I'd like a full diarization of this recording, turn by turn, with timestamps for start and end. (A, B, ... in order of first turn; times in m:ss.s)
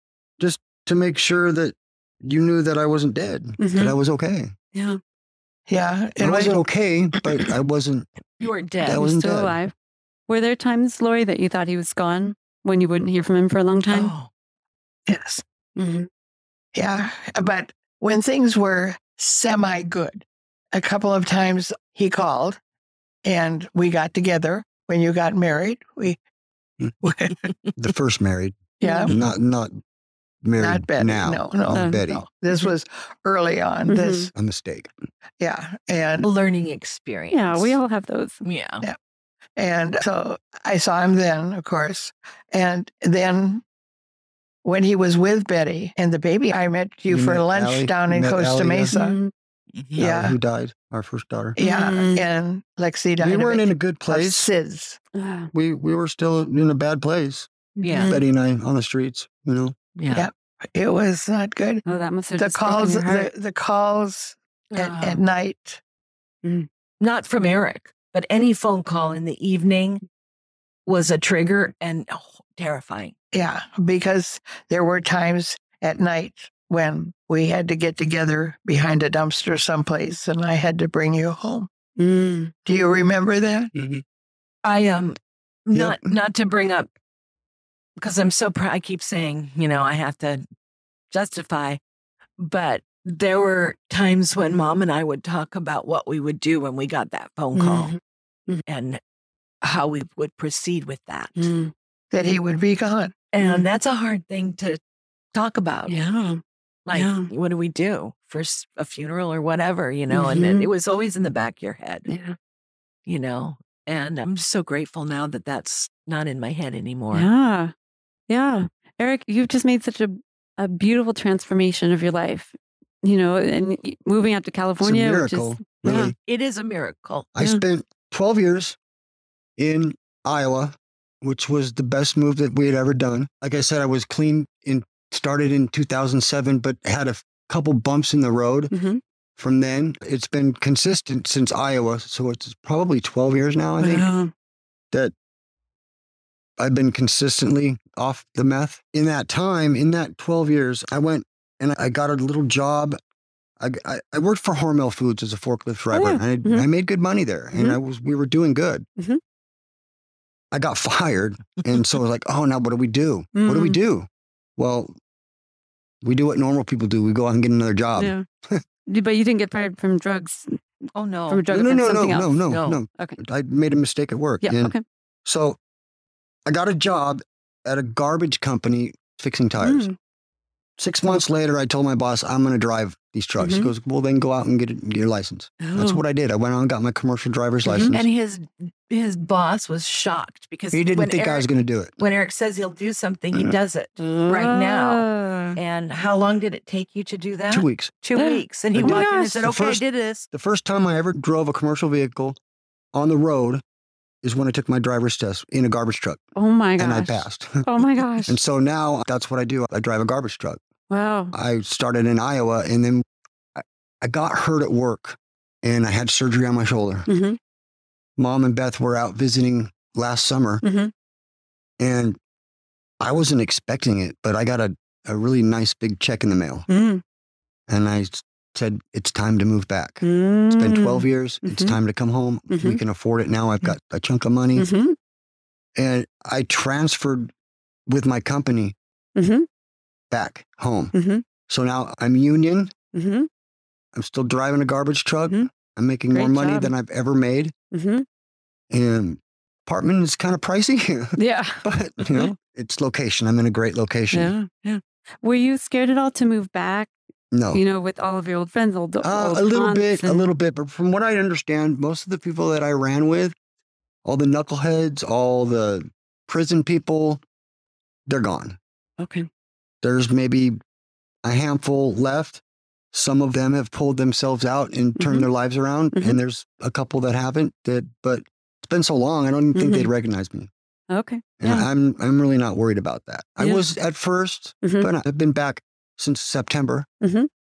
0:00.4-0:04.5 A
0:03.6-0:03.9 B
0:04.7-0:05.0 B
0:05.7-0:06.6 C
0:06.2-0:08.1 A
0:08.4-0:09.0 D
0:08.8-0:09.6 A
0:08.9-0:09.7 B
0:10.3-0:14.1 B
0:13.9-0:14.3 D
0:15.1-0:15.4 C
0:15.8-0:16.1 B
0:16.7-0:22.6 C
0:23.2-0:26.2 C
0:27.0-0:27.5 C
0:27.8-0:29.8 A
0:28.8-0:29.2 C
0:28.8-0:29.1 B
0:30.4-0:32.2 A
0:30.6-0:34.3 C
0:31.7-0:32.0 B
0:33.9-0:34.3 B
0:34.4-0:34.9 A
0:35.4-0:36.3 C
0:36.2-0:37.8 D
0:37.3-0:38.4 B
0:38.4-0:38.9 D
0:39.6-0:43.6 C
0:44.6-0:49.2 C
0:47.1-0:48.9 A
0:48.9-0:49.3 B
0:49.7-0:50.0 D
0:50.0-0:50.4 C
0:50.0-0:51.6 A
0:51.6-0:52.2 B
0:51.6-0:55.0 C
0:53.2-0:54.5 A
0:55.1-0:55.5 B
0:55.5-0:57.5 A
0:57.8-0:58.2 B
0:57.8-0:58.2 D
0:58.1-0:59.8 A
1:00.0-1:00.3 D
1:00.1-1:01.8 C
1:01.8-1:03.3 B
1:02.4-1:05.8 C
1:04.7-1:05.2 D
1:07.0-1:10.0 D
1:10.9-1:13.1 D
1:13.3-1:21.7 C
1:22.0-1:22.5 B
1:22.7-1:23.7 C
1:23.8-1:24.0 A
1:24.6-1:26.9 D
1:25.7-1:26.1 A
1:28.0-1:30.4 D
1:31.1-1:31.8 D
1:32.4-1:37.9 D
1:37.6-1:38.6 B
1:38.7-1:39.0 D
1:39.6-1:41.5 D
1:41.4-1:41.7 B
1:42.1-1:43.1 C
1:43.3-1:44.8 D
1:45.3-1:45.9 D
1:45.9-1:46.4 B
1:46.9-1:52.1 D
1:46.9-1:47.3 B
1:50.1-1:50.7 B
1:52.1-1:52.4 B
1:53.1-1:57.3 D
1:57.1-1:57.7 B
1:58.3-2:06.1 B
2:04.8-2:06.2 A
2:06.2-2:07.3 D
2:07.4-2:08.8 A
2:09.6-2:18.7 A
2:18.7-2:19.0 B
2:19.4-2:24.1 A
2:23.8-2:24.3 B
2:26.6-2:33.0 A
2:33.6-2:38.9 A
2:35.9-2:36.7 B
2:40.5-2:45.0 A
2:43.4-2:43.8 B
2:46.0-2:48.6 A
2:48.0-2:48.2 B
2:48.9-2:50.6 B
2:51.0-2:51.4 D
2:51.3-2:53.2 B
2:51.5-2:55.6 A
2:52.5-2:52.8 D
2:54.4-2:54.8 B
2:56.5-2:59.9 A
2:59.6-3:00.0 B
3:00.8-3:08.1 A
3:03.4-3:03.7 B
3:05.6-3:06.0 B
3:07.6-3:07.9 B
3:07.8-3:11.5 D
3:10.7-3:11.9 A
3:12.0-3:20.3 D
3:14.0-3:15.6 B
3:17.5-3:18.0 A
3:18.2-3:19.4 B
3:18.7-3:22.4 A
3:22.9-3:23.6 A
3:24.2-3:26.2 A
3:26.4-3:28.4 B
3:26.8-3:27.7 A
3:28.2-3:30.6 A
3:30.9-3:31.3 B
3:31.3-3:33.0 A
3:33.6-3:37.1 A
3:37.1-3:37.4 B
3:38.2-3:40.6 A
3:40.6-3:40.9 B
3:41.8-3:42.2 A
3:43.0-3:46.7 A
3:46.7-3:47.0 B
3:47.7-3:54.7 A
3:50.0-3:51.8 B
3:52.5-3:52.8 B
3:54.6-3:55.0 B
3:55.8-3:57.3 A
3:57.9-3:58.8 A
3:59.2-3:59.5 B
4:00.1-4:00.9 A
4:00.9-4:01.2 B
4:01.5-4:02.7 A
4:02.9-4:03.3 B
4:03.9-4:07.5 A
4:06.1-4:06.7 B
4:07.7-4:08.1 B
4:08.7-4:14.3 A
4:11.2-4:12.3 B
4:14.1-4:16.9 B
4:17.3-4:17.6 A
4:17.5-4:20.3 B
4:19.0-4:23.4 A
4:24.0-4:27.2 A
4:28.1-4:28.6 A
4:29.0-4:29.3 B
4:29.8-4:30.6 A
4:31.2-4:32.4 A
4:32.9-4:40.5 A
4:35.0-4:35.3 B
4:39.6-4:39.9 B
4:40.9-4:41.7 B
4:41.4-4:46.9 A
4:44.6-4:44.9 B
4:47.0-4:47.3 B